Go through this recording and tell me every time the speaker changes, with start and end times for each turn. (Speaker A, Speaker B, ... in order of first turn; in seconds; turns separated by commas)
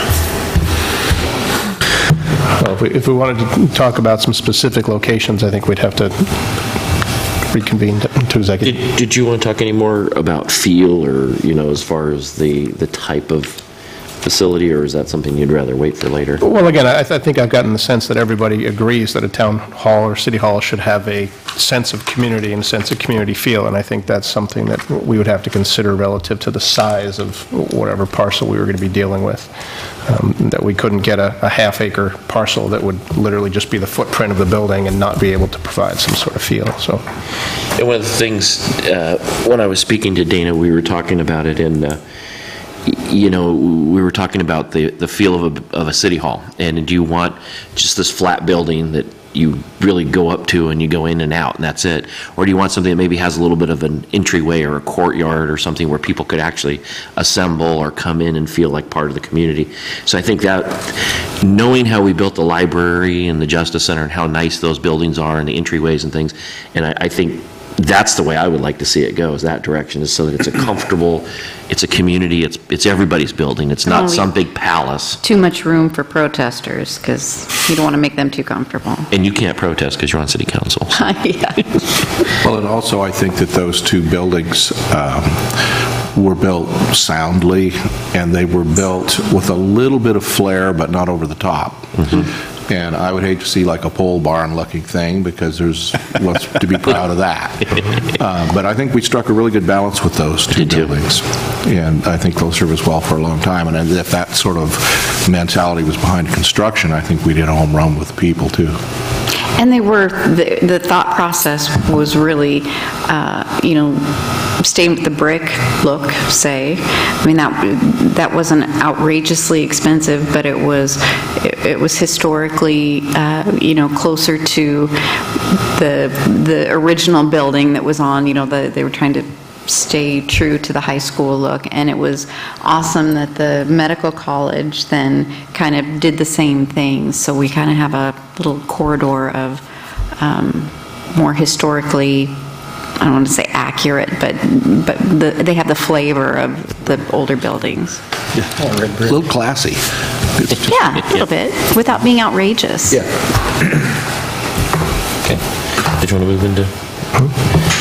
Speaker A: 2.6-6.5, Speaker A: 7.5-8.7, Speaker B: 8.6-13.6, Speaker B: 14.2-16.4, Speaker A: 16.4-29.5, Speaker A: 30.1-37.0, Speaker B: 37.8-42.0, Speaker B: 42.9-75.2, Speaker C: 73.8-74.3, Speaker C: 75.2-79.1, Speaker B: 79.1-81.0, Speaker C: 80.9-81.7, Speaker D: 82.4-108.8, Speaker B: 92.0-92.3, Speaker B: 100.5-101.0, Speaker C: 109.6-139.6, Speaker C: 140.2-142.4, Speaker C: 143.0-148.0, Speaker D: 149.0-149.8, Speaker C: 150.7-153.0, Speaker B: 155.9-156.7